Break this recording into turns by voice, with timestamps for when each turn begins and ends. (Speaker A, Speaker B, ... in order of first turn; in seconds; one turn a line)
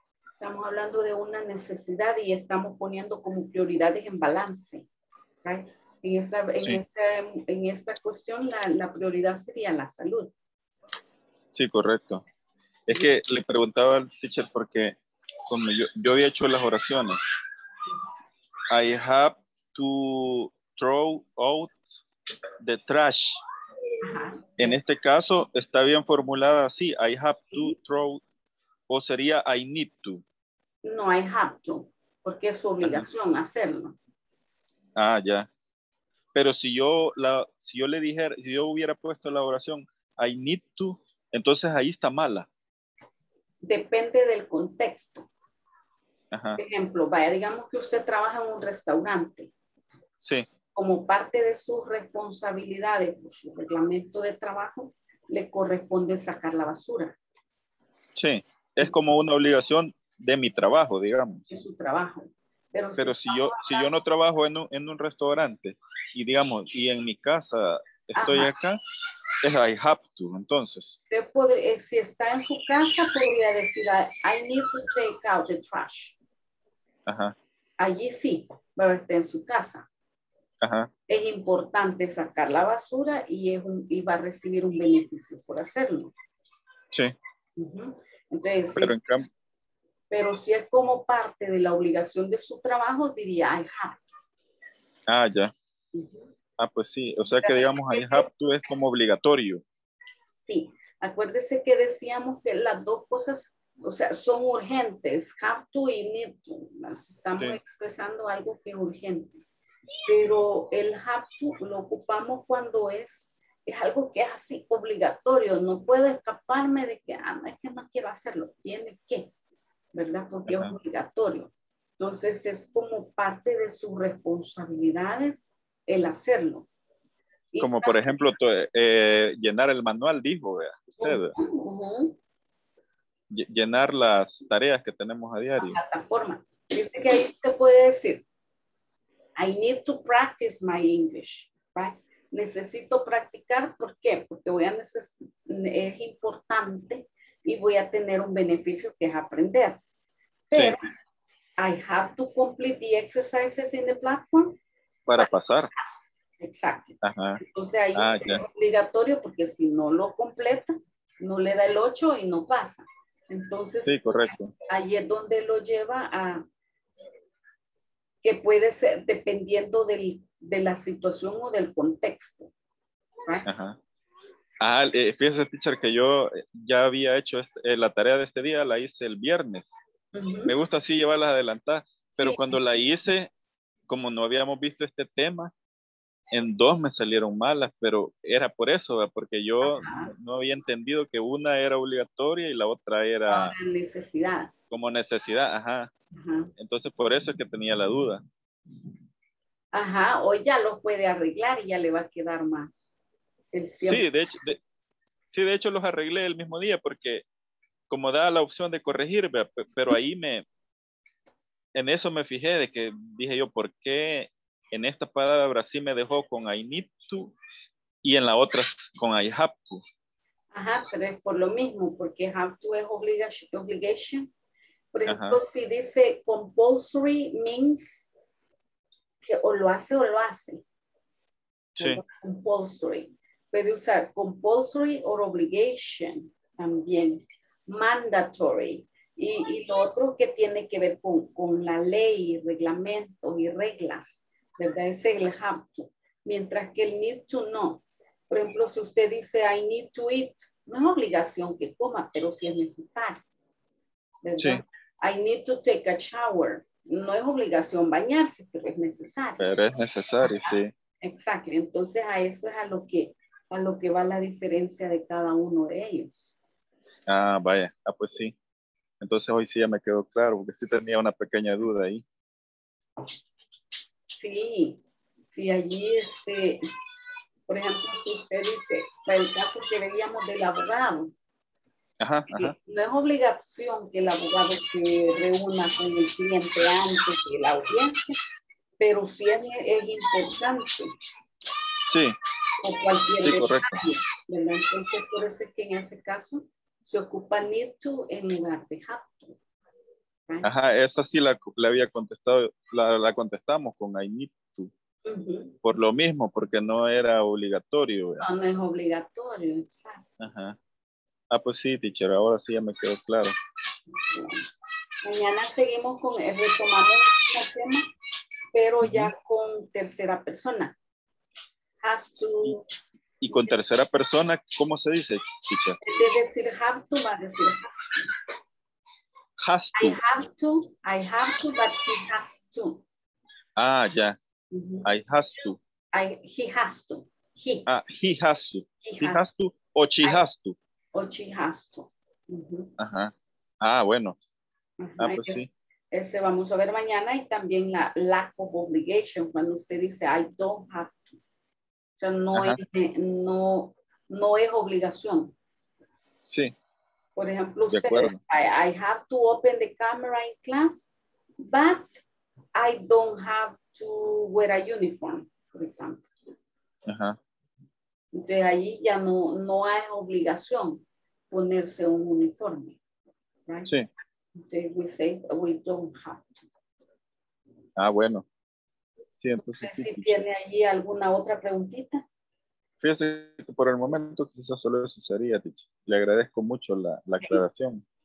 Speaker A: 0.3-4.9
Speaker A: 5.4-10.3
Speaker B: 11.5-12.2
Speaker B: 12.9-14.9
Speaker B: 15.5-17.2
Speaker B: 18.7-21.9
Speaker B: 22.6-23.4
Speaker A: 24.0-25.0
Speaker B: 24.6-28.2
Speaker B: 28.9-30.2
Speaker A: 30.8-34.0
Speaker B: 35.0-35.5
Speaker B: 36.3-42.5
Speaker A: 43.6-45.3
Speaker B: 46.3-46.6
Speaker A: 46.6-49.5
Speaker B: 50.2-50.5
Speaker A: 50.7-57.2
Speaker B: 58.1-61.4
Speaker A: 61.5-63.9
Speaker B: 63.0-68.8
Speaker A: 68.1-68.5
Speaker B: 69.4-71.0
Speaker A: 71.1-76.2
Speaker B: 77.1-77.3
Speaker A: 77.8-79.8
Speaker B: 80.6-80.9
Speaker A: 81.1-86.1
Speaker A: 87.6-89.3
Speaker B: 88.8-89.3
Speaker A: 90.1-94.0
Speaker B: 95.1-95.5
Speaker A: 95.9-96.3
Speaker B: 96.6-99.6
Speaker A: 97.3-98.8
Speaker A: 100.4-109.4
Speaker A: 110.0-119.3
Speaker A: 119.9-126.7
Speaker B: 120.5-120.7
Speaker A: 127.5-128.3
Speaker B: 127.6-131.3
Speaker A: 131.0-132.2
Speaker B: 133.3-135.8
Speaker A: 135.6-138.2
Speaker A: 139.4-149.8
Speaker A: 150.5-150.9
Speaker B: 150.5-150.8
Speaker A: 151.6-154.6
Speaker B: 155.1-155.7
Speaker A: 155.2-155.8
Speaker A: 156.4-166.4
Speaker B: 157.0-157.4
Speaker B: 157.9-158.4
Speaker B: 163.8-164.5
Speaker A: 168.2-172.5
Speaker B: 173.4-173.8
Speaker B: 174.6-179.7
Speaker A: 180.1-180.5
Speaker B: 180.5-183.3
Speaker A: 182.1-182.6
Speaker B: 183.9-185.5
Speaker B: 186.3-193.5
Speaker A: 189.6-190.1
Speaker A: 193.3-194.5
Speaker B: 194.7-195.9
Speaker A: 196.1-196.5
Speaker B: 196.6-198.2
Speaker A: 199.7-203.0
Speaker A: 203.5-204.3
Speaker B: 203.8-204.6
Speaker B: 205.3-207.2
Speaker B: 207.9-210.4
Speaker B: 211.8-217.3
Speaker B: 218.0-219.8
Speaker A: 220.5-224.3
Speaker A: 224.9-228.1
Speaker B: 225.1-225.4
Speaker A: 229.2-230.6
Speaker B: 231.8-232.0
Speaker A: 231.8-253.2
Speaker A: 254.2-259.6
Speaker B: 259.4-260.7
Speaker A: 260.4-266.3
Speaker B: 267.1-268.3
Speaker B: 269.0-272.0
Speaker A: 274.1-276.6
Speaker A: 277.5-281.1
Speaker B: 282.0-282.5
Speaker A: 282.3-288.2
Speaker A: 288.8-290.9
Speaker B: 291.9-292.1
Speaker A: 292.6-299.4
Speaker B: 293.2-293.8
Speaker B: 300.4-304.7
Speaker A: 305.0-305.6
Speaker B: 305.6-308.2
Speaker A: 308.2-310.0
Speaker B: 310.2-310.6
Speaker B: 311.3-313.3
Speaker A: 313.9-314.5
Speaker A: 315.0-317.9
Speaker A: 318.5-320.8
Speaker B: 318.8-319.1
Speaker A: 321.8-322.6
Speaker B: 323.2-325.8
Speaker A: 323.3-323.6
Speaker A: 325.8-328.1
Speaker B: 329.4-330.0
Speaker A: 329.7-332.8
Speaker B: 333.6-334.1
Speaker A: 334.5-334.9
Speaker B: 334.8-335.6
Speaker A: 335.9-337.7
Speaker B: 337.7-340.6
Speaker A: 338.8-339.3
Speaker A: 340.9-342.7
Speaker B: 342.8-344.2
Speaker A: 344.8-351.2
Speaker B: 345.0-345.5
Speaker A: 352.0-355.3
Speaker B: 356.3-356.5
Speaker A: 357.1-362.0
Speaker B: 357.7-358.2
Speaker A: 362.5-366.1
Speaker B: 366.9-367.1
Speaker A: 368.1-372.8
Speaker A: 373.5-373.7
Speaker A: 374.4-376.5
Speaker B: 377.8-378.2
Speaker B: 379.2-380.2
Speaker A: 379.4-382.0
Speaker B: 382.8-387.8